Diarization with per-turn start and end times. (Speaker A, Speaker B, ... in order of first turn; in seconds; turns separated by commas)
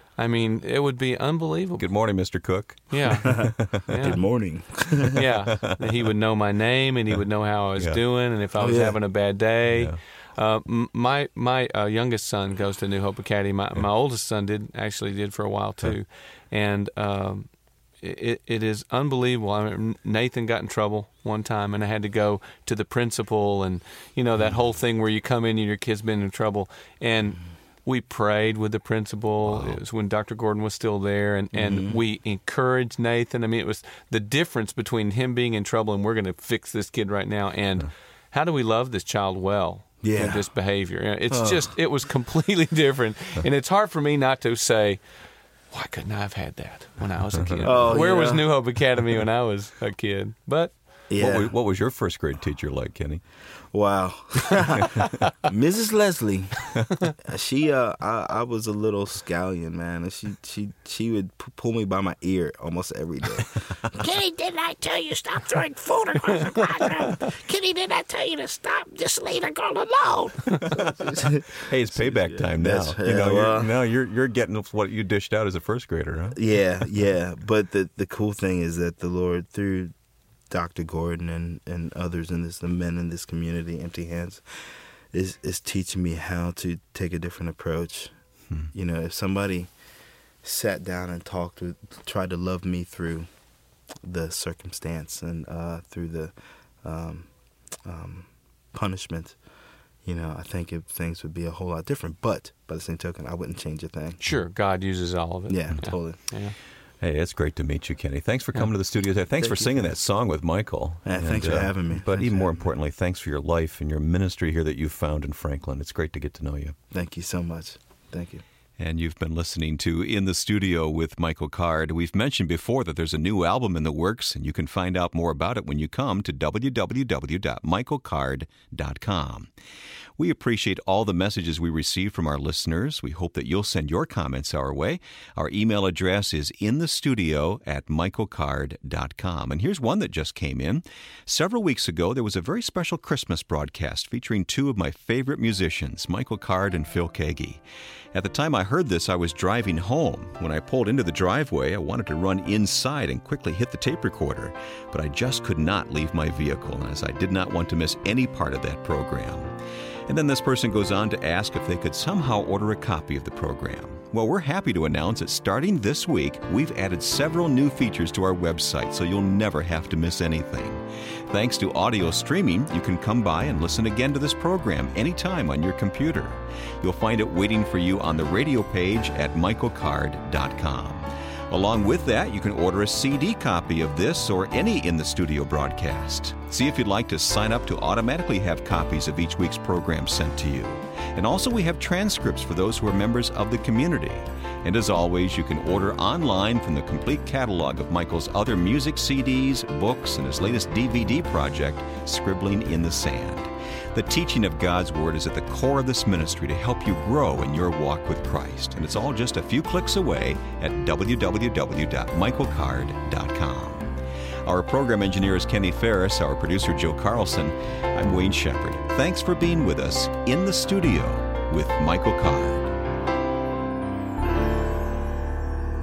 Speaker A: 0.1-1.9, Speaker B: 1.8-3.8, Speaker A: 2.9-4.2, Speaker C: 3.2-5.2, Speaker A: 5.1-17.5, Speaker B: 5.5-5.8, Speaker C: 8.6-9.0, Speaker B: 9.7-10.0, Speaker A: 18.0-45.0, Speaker B: 29.4-29.8, Speaker C: 31.5-32.0, Speaker C: 40.0-40.4, Speaker C: 41.3-41.6, Speaker A: 45.7-50.8, Speaker B: 47.4-48.0, Speaker C: 47.6-48.5, Speaker C: 51.1-51.5, Speaker B: 51.2-53.2, Speaker C: 53.7-63.8, Speaker D: 64.0-70.7, Speaker B: 70.7-76.4, Speaker C: 71.0-73.7, Speaker C: 76.3-79.9, Speaker C: 80.5-88.2, Speaker C: 88.7-89.7, Speaker C: 90.4-93.3, Speaker C: 94.0-99.4, Speaker C: 100.0-104.2, Speaker A: 104.2-106.5, Speaker C: 105.5-106.2, Speaker B: 107.0-116.8, Speaker C: 109.4-109.9, Speaker C: 111.0-112.6, Speaker C: 116.9-118.4, Speaker B: 118.8-129.5, Speaker B: 130.2-147.6, Speaker B: 148.1-159.5, Speaker B: 160.1-213.9, Speaker B: 214.4-222.7